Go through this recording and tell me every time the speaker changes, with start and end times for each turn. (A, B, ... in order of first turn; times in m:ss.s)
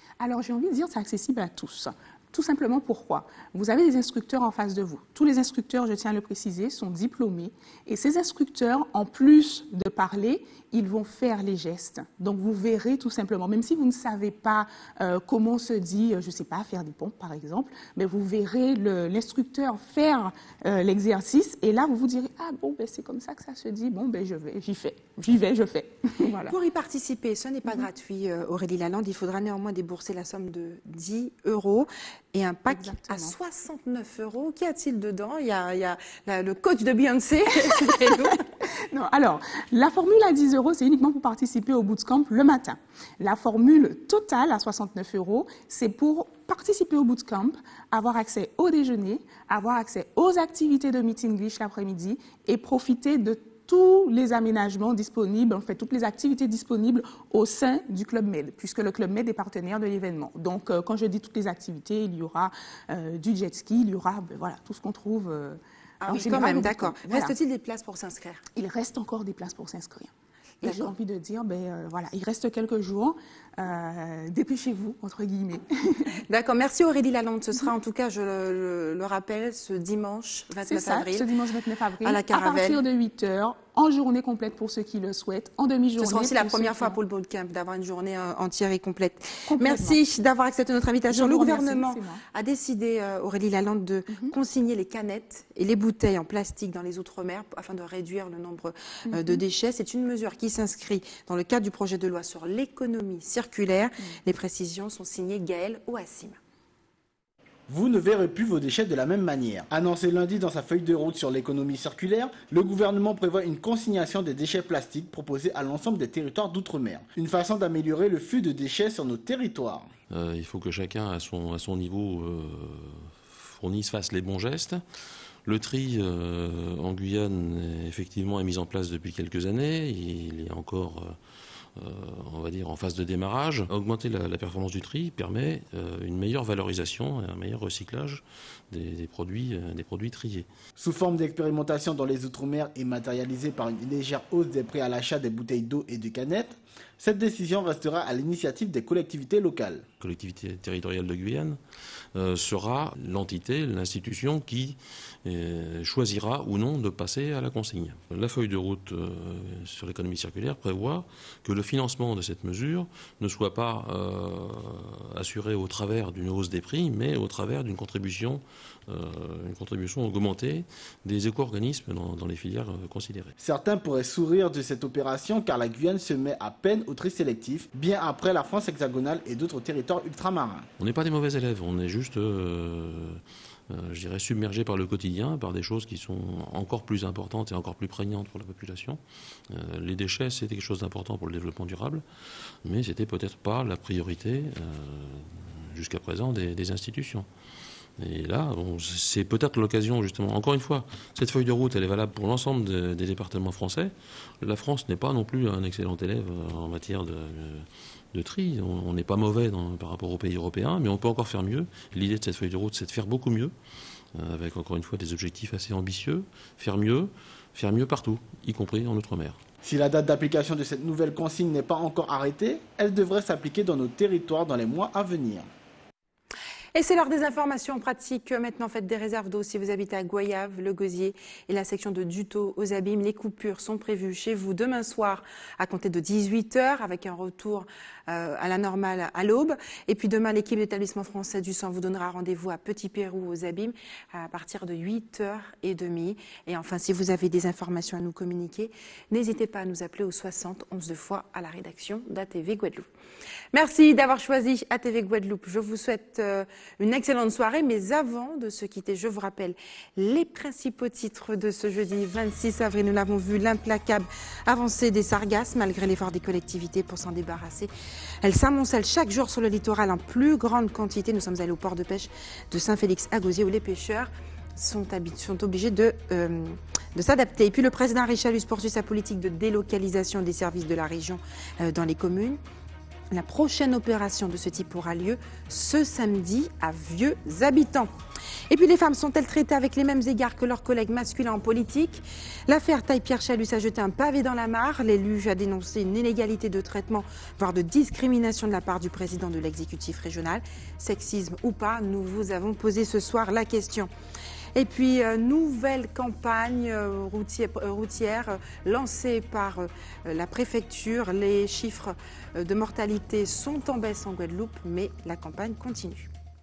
0:00.2-0:26.6 A
0:26.5-0:38.4 B
0:32.7-0:33.4 A
0:37.7-0:38.3 A
0:38.9-1:07.3 A
1:06.0-1:08.4 B
1:08.6-1:10.1 A
1:10.6-1:10.9 B
1:10.6-1:16.1 A
1:16.3-1:21.3 B
1:20.7-1:27.0 A
1:22.0-1:22.8 B
1:26.0-1:46.4 B
1:29.5-1:30.0 A
1:31.1-1:32.2 A
1:34.1-1:34.3 A
1:39.1-1:39.4 A
1:47.7-1:59.9 C
2:00.1-2:04.8 D
2:05.5-2:11.2 D
2:11.8-2:20.5 D
2:20.8-2:29.9 C
2:30.0-2:31.6 D
2:32.2-2:53.3 D
2:53.4-3:00.7 C
3:00.8-3:12.0 D
3:12.6-3:17.3 D
3:18.0-3:33.5 D
3:34.2-3:39.4 D
3:39.6-3:45.5 C
3:46.8-4:12.9 B
4:13.5-4:27.7 B
4:28.2-4:42.4 B
4:43.1-4:47.9 B
4:48.5-5:03.9 B
5:04.6-5:16.1 B